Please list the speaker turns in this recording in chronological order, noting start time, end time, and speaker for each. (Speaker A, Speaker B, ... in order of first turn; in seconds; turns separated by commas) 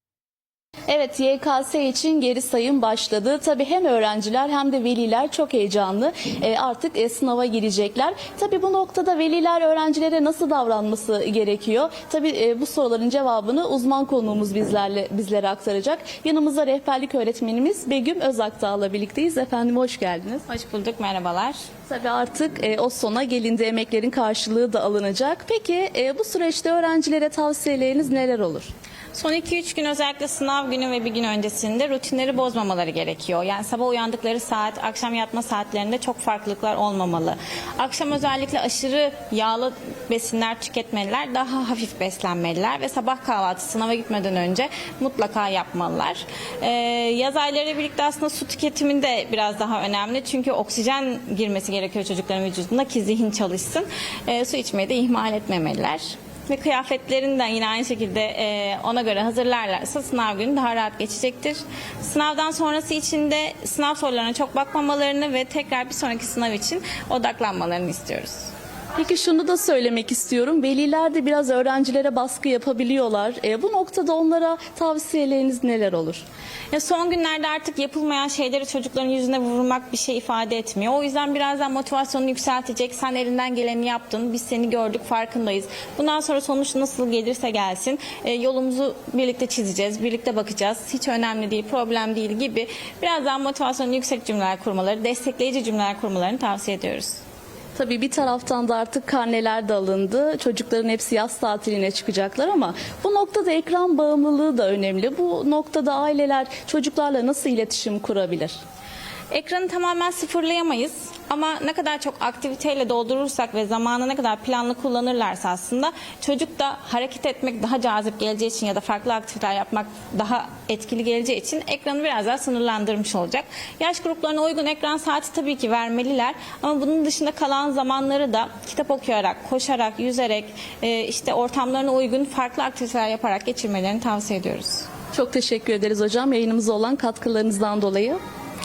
Speaker A: 0.9-20.4, Speaker B: 20.5-21.6, Speaker A: 21.9-28.7, Speaker B: 29.1-68.5, Speaker A: 69.0-76.2, Speaker B: 76.7-97.2, Speaker A: 97.8-108.6, Speaker B: 109.3-134.9, Speaker A: 135.1-138.2